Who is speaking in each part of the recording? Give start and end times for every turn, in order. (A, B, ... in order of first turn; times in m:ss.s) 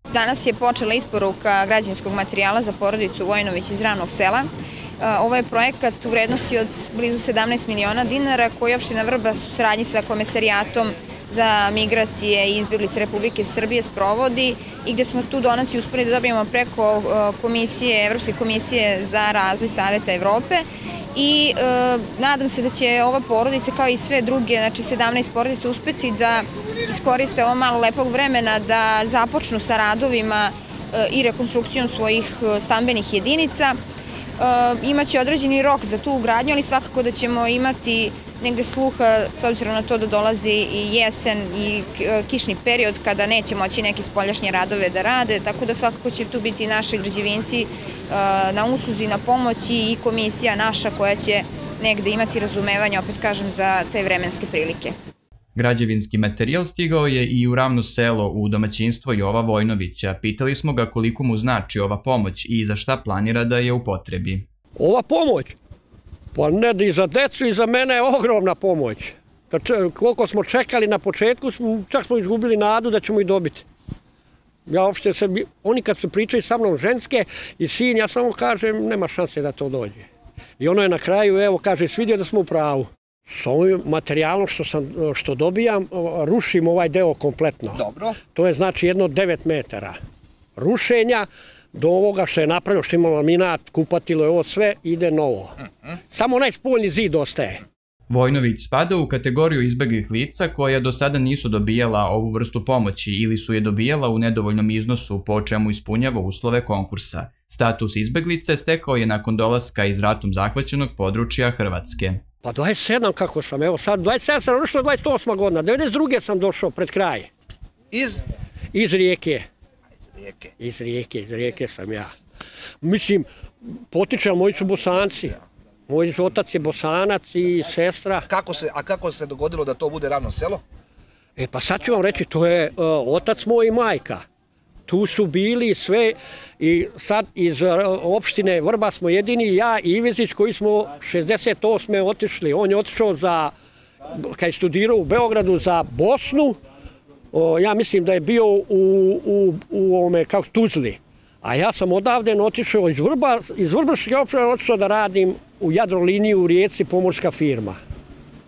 0:00.1-0:04.5 A
0:05.0-0:33.8 A
0:34.4-0:54.9 A
0:55.5-1:04.4 B
1:04.8-1:05.6 C
1:06.3-1:13.6 C
1:14.7-1:20.0 C
1:20.6-1:30.0 C
1:27.8-1:28.2 D
1:30.6-1:35.6 C
1:36.1-1:37.6 C
1:38.1-1:52.2 B
1:52.4-1:57.3 C
1:57.9-1:58.2 D
1:58.7-1:59.4 C
2:00.6-2:02.1 C
2:02.8-2:03.3 C
2:03.9-2:08.3 C
2:08.3-2:10.6 D
2:11.4-2:14.2 C
2:14.9-2:23.5 C
2:24.1-2:26.6 C
2:27.3-2:37.8 C